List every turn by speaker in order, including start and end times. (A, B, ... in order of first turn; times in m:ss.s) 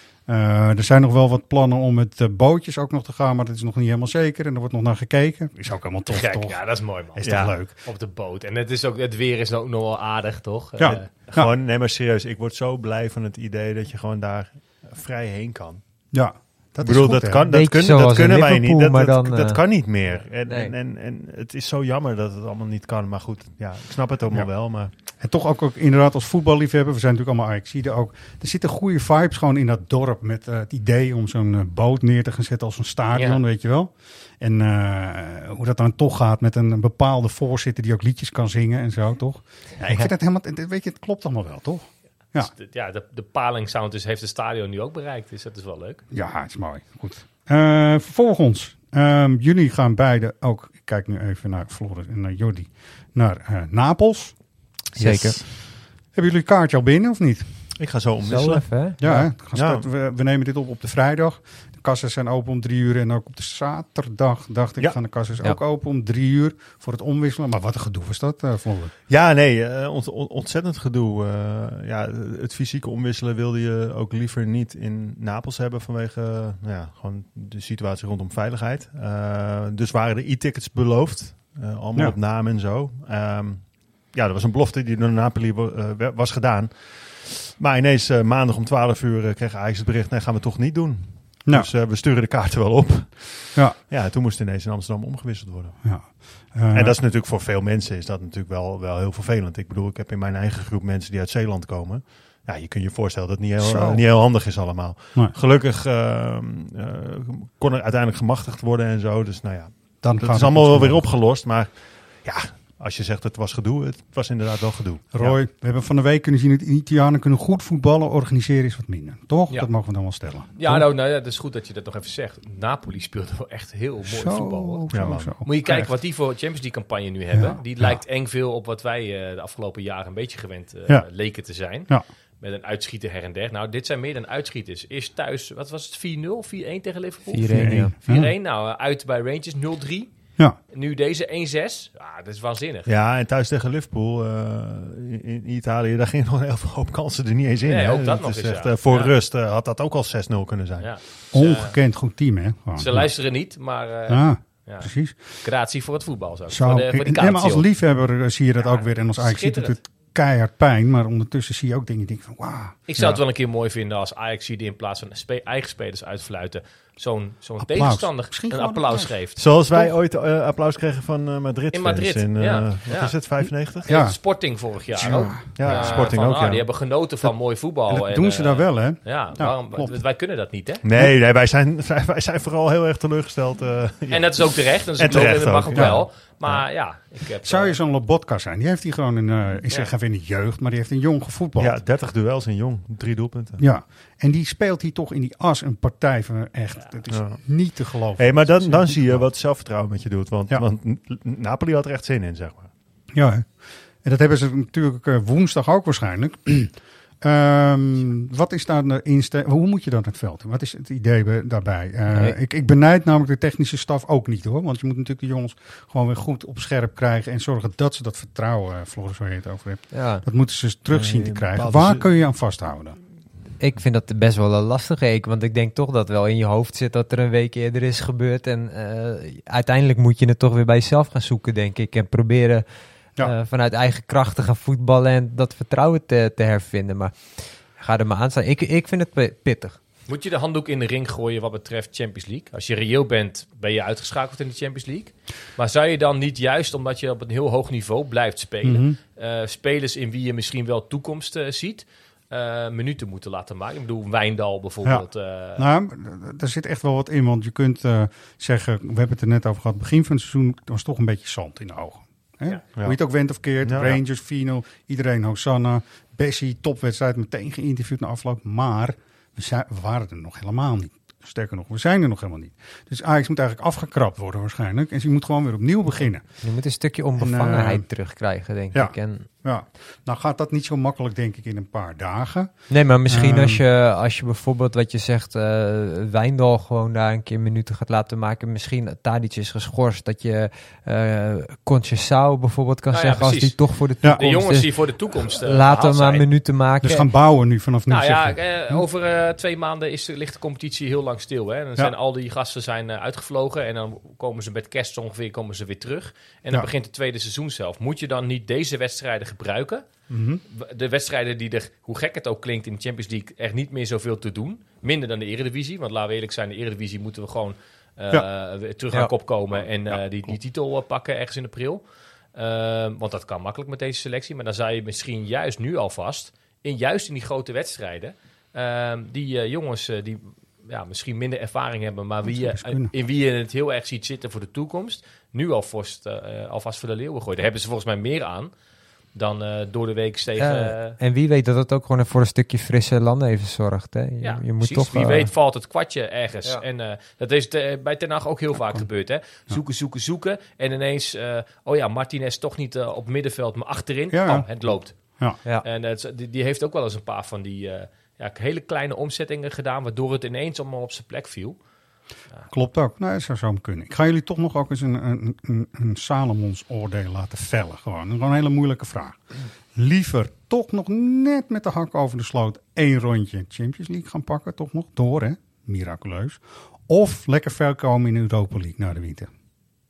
0:00.3-0:07.7 A
0:06.1-0:11.1 B
0:07.2-0:07.5 C
0:10.8-0:11.5 A
0:10.8-0:15.8 C
0:16.1-0:17.5 A
0:16.8-0:24.9 C
0:17.5-0:19.6 D
0:20.5-0:20.7 D
0:25.2-0:42.5 A
0:33.1-0:33.4 B
0:42.4-0:46.0 B
0:46.1-0:54.4 A
0:55.0-0:55.4 D
0:55.0-0:57.5 A
0:57.8-0:59.9 C
0:58.2-0:59.0 D
0:59.0-1:08.9 A
1:09.1-1:35.8 C
1:35.8-1:37.0 A
1:36.7-1:55.4 C
1:43.6-1:44.0 A
1:50.0-1:51.1 A
1:55.1-2:00.9 A
2:00.6-2:11.9 B
2:04.0-2:05.9 A
2:04.9-2:05.3 C
2:07.3-2:08.0 A
2:12.4-2:20.1 B
2:17.3-2:17.9 D
2:17.5-2:18.3 A
2:20.7-2:22.9 B
2:22.9-2:30.9 C
2:27.6-2:29.1 B
2:30.8-2:31.8 B
2:31.3-2:33.1 A
2:32.7-2:37.7 B
2:34.1-2:35.2 A
2:36.5-2:42.8 A
2:38.6-2:39.8 B
2:42.9-2:49.4 B
2:47.6-2:49.9 A
2:49.4-2:53.9 C
2:51.7-3:00.8 B
2:53.9-2:54.2 A
2:54.9-2:56.2 A
2:55.0-2:56.6 C
2:57.9-3:00.0 A
3:00.8-3:06.6 C
3:04.1-3:07.8 B
3:05.7-3:06.1 A
3:07.4-3:11.8 A
3:11.6-3:13.6 C
3:13.6-3:19.3 A
3:17.1-3:22.7 C
3:23.1-3:43.0 A
3:39.9-3:40.2 D
3:40.9-3:42.1 C
3:43.6-3:52.6 D
3:53.2-3:59.8 D
4:00.1-4:15.7 B
4:08.6-4:09.0 A
4:15.6-4:36.2 A
4:23.6-4:24.0 C
4:36.4-4:39.3 D
4:37.2-4:37.9 A
4:38.7-4:43.6 A
4:42.7-4:57.1 D
4:52.9-4:56.3 B
4:56.8-4:58.8 A
4:57.9-5:09.8 B
5:10.1-5:10.4 A
5:10.5-5:21.8 B
5:22.4-5:38.5 B
5:32.2-5:32.9 A
5:39.1-5:41.0 B
5:40.4-5:45.3 D
5:44.2-6:01.6 B
5:48.6-5:48.9 A
5:54.1-5:54.5 A
6:02.5-6:09.2 A
6:09.7-6:19.3 A